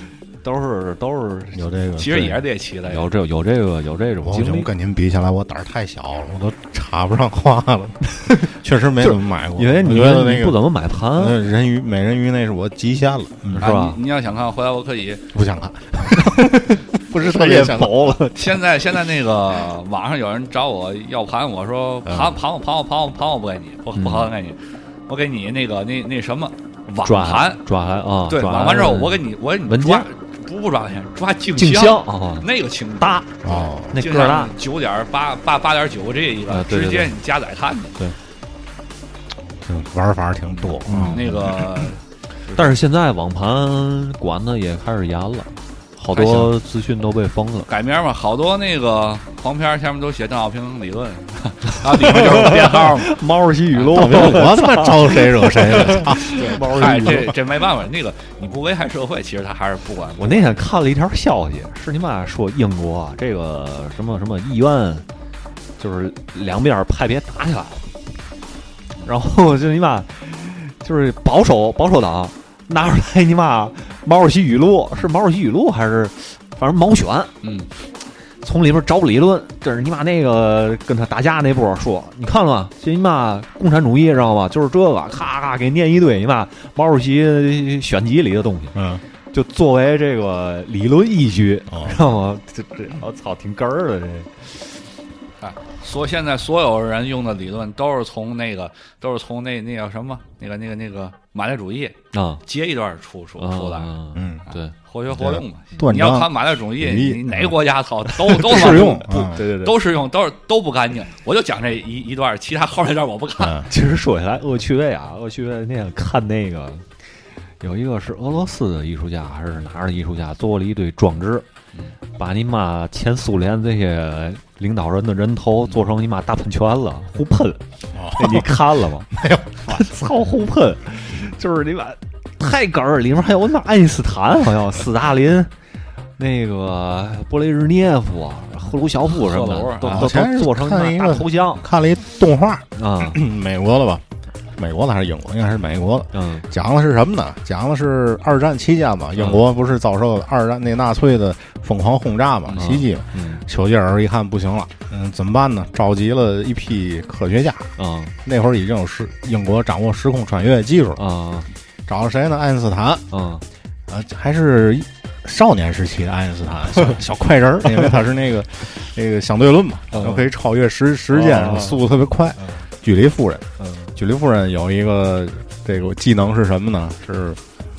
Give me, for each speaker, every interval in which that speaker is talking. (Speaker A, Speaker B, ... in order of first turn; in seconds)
Speaker A: 0.4-4.7, 8.2-11.4, 13.5-14.0, 16.5-18.6, 23.9-24.3, 27.0-30.1, 31.6-32.5, 33.0-33.4, 33.9-34.5, 36.5-37.1, 40.9-41.6, 42.5-47.7, 51.8-57.3, 60.2-65.0, 65.8-67.9, 69.0-77.3, 78.4-88.8, 89.3-94.6, 102.1-102.4, 103.4-104.7, 108.3-109.8, 113.7-116.9, 117.6-121.4, 122.2-127.6, 128.1-129.1, 129.7-135.5, 136.2-141.6, 142.8-143.2, 146.1-146.5, 152.5-153.4, 157.8-158.1, 161.0-161.5, 163.1-163.4, 167.7-167.9, 171.1-171.8, 173.6-173.9
Speaker B: 1.5-2.2, 4.2-10.6, 11.1-13.7, 15.3-18.2, 22.1-22.3, 33.4-33.9, 39.6-41.3, 53.9-57.3, 88.7-89.0, 91.7-92.0, 104.1-104.5, 105.1-107.5, 108.3-109.4, 113.4-113.7, 127.9-128.6, 129.1-129.9, 139.8-144.0, 144.6-157.7, 158.2-161.0, 161.9-163.1, 163.9-177.4
Speaker C: 2.0-3.0, 13.6-15.2, 18.3-27.6, 28.3-38.0, 40.7-42.8, 46.1-46.5, 47.6-53.1, 53.7-54.0, 56.2-60.5, 77.4-77.7, 95.4-103.9, 104.8-109.0, 109.6-113.6, 139.1-140.1